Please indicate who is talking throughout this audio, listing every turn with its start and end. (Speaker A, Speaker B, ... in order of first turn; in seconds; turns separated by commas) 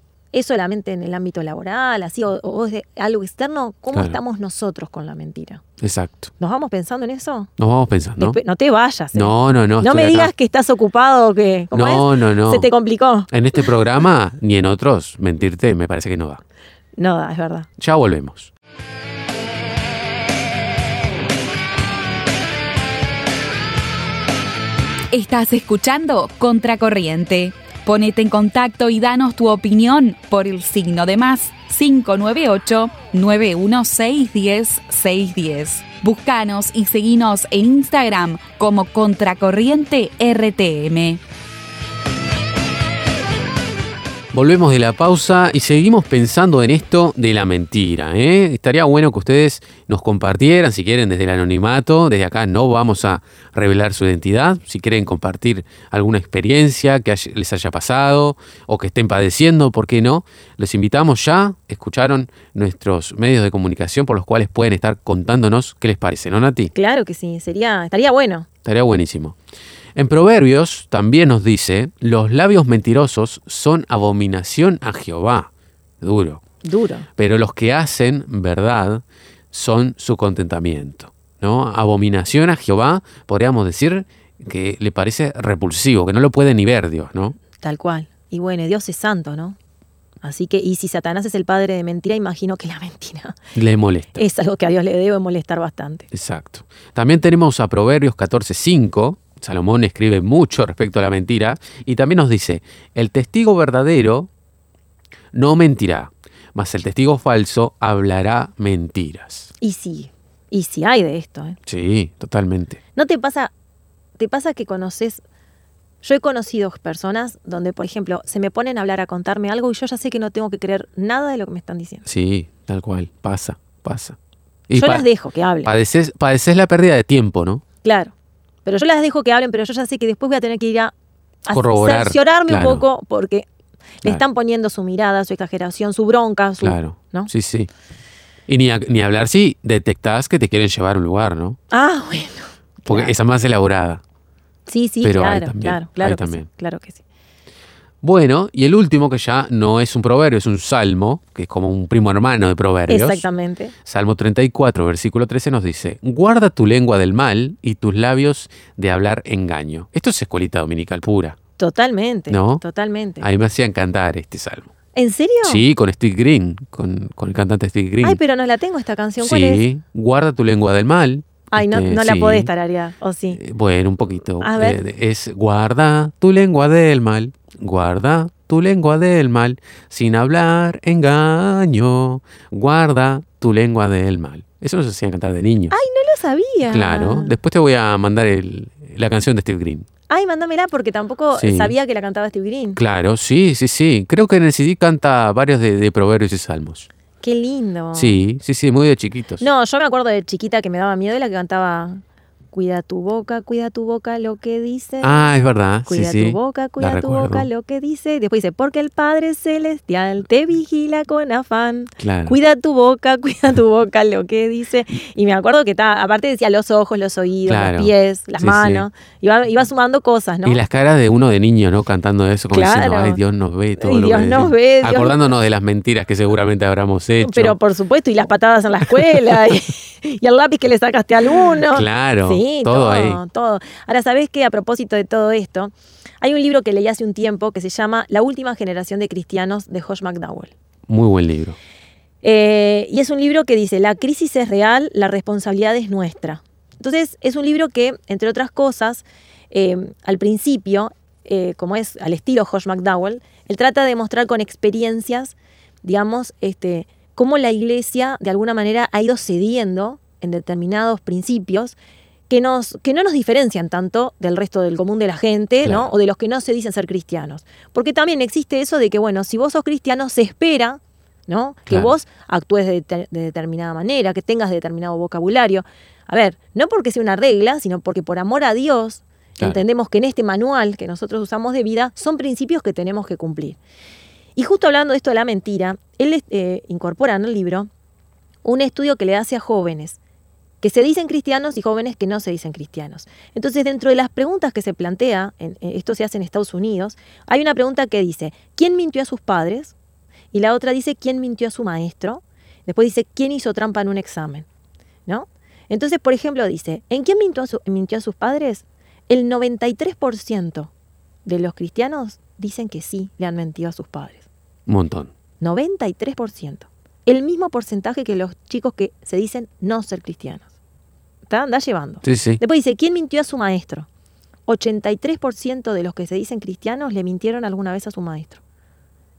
Speaker A: 0.3-5.6, Speaker B: 3.9-4.2, Speaker B: 5.8-6.3, Speaker A: 6.4-7.5, Speaker B: 7.6-8.4, Speaker A: 8.2-13.3, Speaker B: 9.1-10.3, Speaker B: 11.7-12.7, Speaker B: 13.3-16.4, Speaker A: 17.0-17.7, Speaker B: 17.8-18.5, Speaker C: 25.1-41.2, Speaker B: 44.3-66.7, Speaker A: 66.7-68.5, Speaker B: 68.6-69.4, Speaker B: 70.0-76.4, Speaker A: 76.6-77.1, Speaker B: 77.2-87.4, Speaker A: 87.6-89.6, Speaker A: 90.2-93.3, Speaker B: 93.5-94.2, Speaker A: 94.1-96.1, Speaker B: 96.1-104.3, Speaker B: 105.3-109.5, Speaker A: 109.6-111.6, Speaker B: 111.7-112.8, Speaker A: 112.9-113.5, Speaker A: 114.2-115.2, Speaker A: 116.0-122.0, Speaker B: 122.0-124.2, Speaker B: 124.7-125.1, Speaker A: 124.7-125.7, Speaker B: 125.6-127.6, Speaker A: 127.8-128.1, Speaker A: 128.6-130.9, Speaker A: 131.4-133.5, Speaker B: 131.5-132.8, Speaker A: 134.0-137.3, Speaker B: 136.6-137.7, Speaker B: 138.5-141.6, Speaker A: 141.7-143.1, Speaker B: 142.9-144.0, Speaker A: 144.7-147.0, Speaker B: 145.0-146.5, Speaker B: 148.0-153.2, Speaker A: 152.9-153.7, Speaker B: 153.8-161.4, Speaker A: 161.6-163.2, Speaker B: 162.3-162.6, Speaker B: 163.2-164.7, Speaker A: 164.9-165.6, Speaker B: 165.4-168.2, Speaker A: 168.0-169.6, Speaker B: 169.2-172.5, Speaker A: 171.5-173.4, Speaker B: 173.4-185.7, Speaker A: 174.4-174.8, Speaker A: 185.7-187.3, Speaker B: 186.6-189.9, Speaker A: 190.1-192.8, Speaker B: 191.3-191.7, Speaker B: 192.8-196.9, Speaker A: 197.2-198.2, Speaker B: 197.9-199.5, Speaker A: 199.4-205.3, Speaker B: 205.0-207.5, Speaker A: 205.8-220.6, Speaker B: 212.0-212.4, Speaker B: 217.4-218.8, Speaker B: 220.4-227.6, Speaker A: 222.5-223.2, Speaker A: 223.8-225.2, Speaker A: 227.2-240.5, Speaker B: 228.9-229.2, Speaker B: 231.7-233.2, Speaker B: 240.9-241.6, Speaker A: 242.2-261.8, Speaker A: 262.3-283.6, Speaker B: 265.6-265.9, Speaker B: 271.7-271.9, Speaker A: 284.4-287.7, Speaker A: 288.4-290.0, Speaker A: 290.6-299.7, Speaker A: 300.3-304.4, Speaker A: 305.1-310.7, Speaker A: 311.2-314.2, Speaker B: 314.7-315.1, Speaker A: 315.4-320.5, Speaker A: 321.3-323.9, Speaker B: 322.0-322.4, Speaker A: 324.5-328.4